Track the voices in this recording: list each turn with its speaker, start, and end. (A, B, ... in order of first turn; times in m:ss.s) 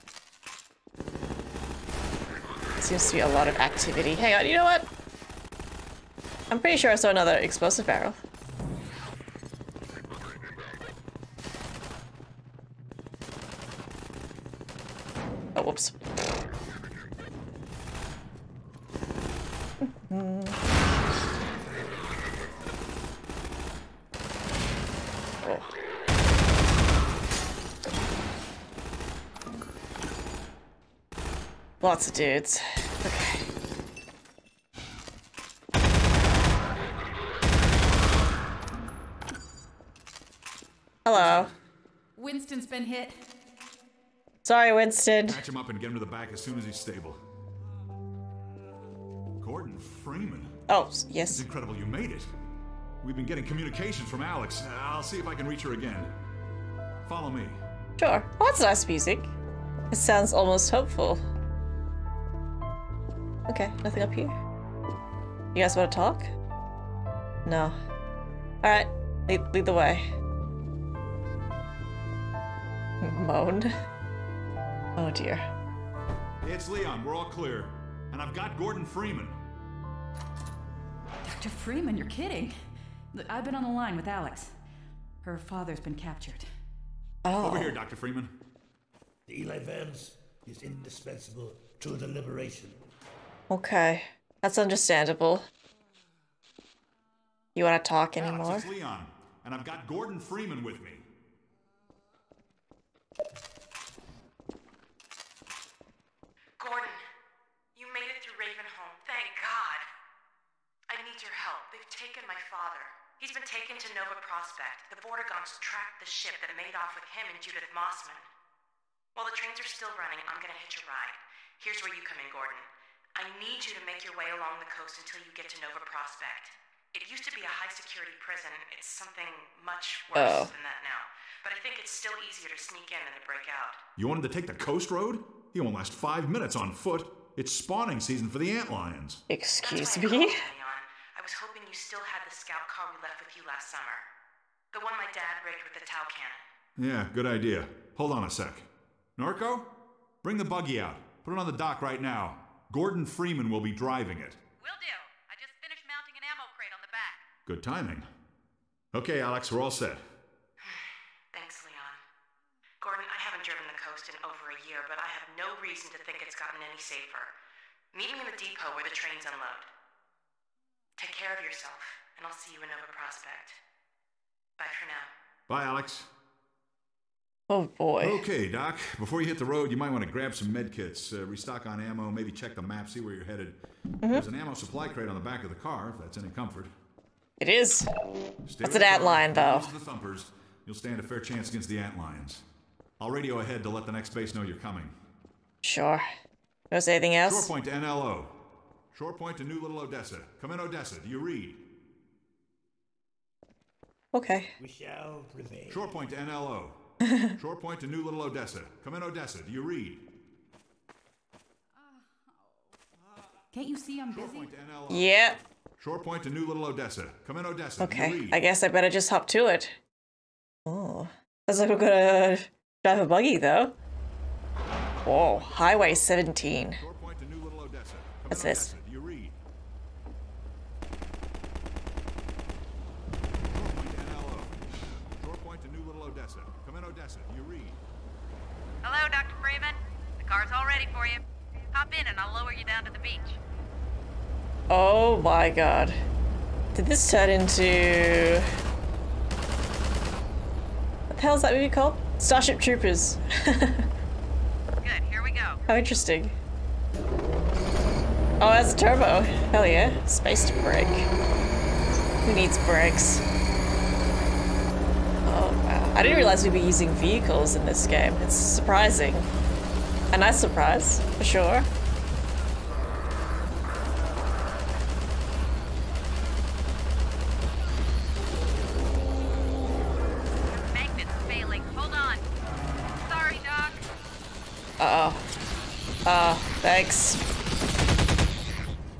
0:02.8-0:04.9 A
0:06.5-0:08.2 A
0:15.5-0:16.0 A
0:19.8-0:20.6 A
0:25.4-0:25.7 A
0:31.8-0:33.4 A
0:41.0-0:41.5 A
0:41.1-0:41.5 B
0:42.2-0:43.2 B
0:44.4-0:45.4 A
0:45.2-0:47.2 C
0:49.4-0:50.6 C
0:50.7-0:51.4 A
0:51.3-0:52.3 C
0:53.0-0:56.1 C
0:57.0-0:57.6 C
0:58.0-0:59.3 A
0:59.9-1:01.2 A
1:03.5-1:04.4 A
1:05.5-1:06.3 A
1:07.4-1:07.7 A
1:08.6-1:10.1 A
1:13.0-1:13.7 A
1:15.0-1:15.5 A
1:16.4-1:19.4 C
1:21.2-1:22.5 B
1:23.1-1:24.5 B
1:25.2-1:26.4 B
1:27.2-1:27.8 A
1:27.4-1:28.3 C
1:29.3-1:32.8 D
1:33.5-1:35.5 A
1:37.5-1:38.7 A
1:38.2-1:41.0 C
1:46.6-1:47.0 E
1:47.7-1:49.8 E
1:50.9-1:58.3 E
1:59.1-2:13.8 E
2:10.1-2:10.5 A
2:14.0-2:19.2 C
2:19.3-2:20.4 A
2:19.6-2:24.0 E
2:24.7-2:26.4 E
2:26.8-2:29.7 C
2:30.2-2:34.4 C
2:34.6-2:37.3 F
2:37.5-2:38.1 C
2:38.9-2:40.0 C
2:40.6-2:42.0 E
2:42.8-2:47.3 E
2:47.9-2:49.7 E
2:51.0-2:53.6 E
2:54.6-2:55.1 E
2:55.5-2:56.1 C
2:57.5-2:58.2 A
2:58.0-3:06.7 C
3:07.4-3:07.9 A
3:08.4-3:12.4 C
3:08.6-3:09.7 A
3:13.0-3:14.9 C
3:15.6-3:16.0 A
3:16.7-3:17.5 A
3:17.2-3:18.4 C
3:18.9-3:21.6 C
3:24.1-3:24.5 A
3:24.6-3:25.9 D
3:25.7-3:26.8 C
3:27.0-3:27.3 A
3:27.4-3:30.1 C
3:33.5-3:34.5 B
3:34.1-3:38.4 C
3:34.9-3:35.4 A
3:37.8-3:39.8 A
3:40.7-3:43.8 A
3:45.0-3:46.8 A
3:45.2-3:45.5 C
3:46.8-3:49.4 C
3:48.3-3:48.7 A
3:53.5-3:54.6 C
3:55.2-3:57.8 C
3:58.8-4:03.4 F
4:04.7-4:06.0 A
4:06.7-4:08.5 A
4:11.1-4:13.9 A
4:14.8-4:15.6 F
4:15.7-4:16.3 A
4:18.4-4:21.1 A
4:22.2-4:23.2 A
4:25.2-4:29.3 A
4:30.1-4:31.7 A
4:40.5-4:42.2 F
4:43.0-4:43.8 F
4:44.8-4:45.2 A
4:46.0-4:47.2 A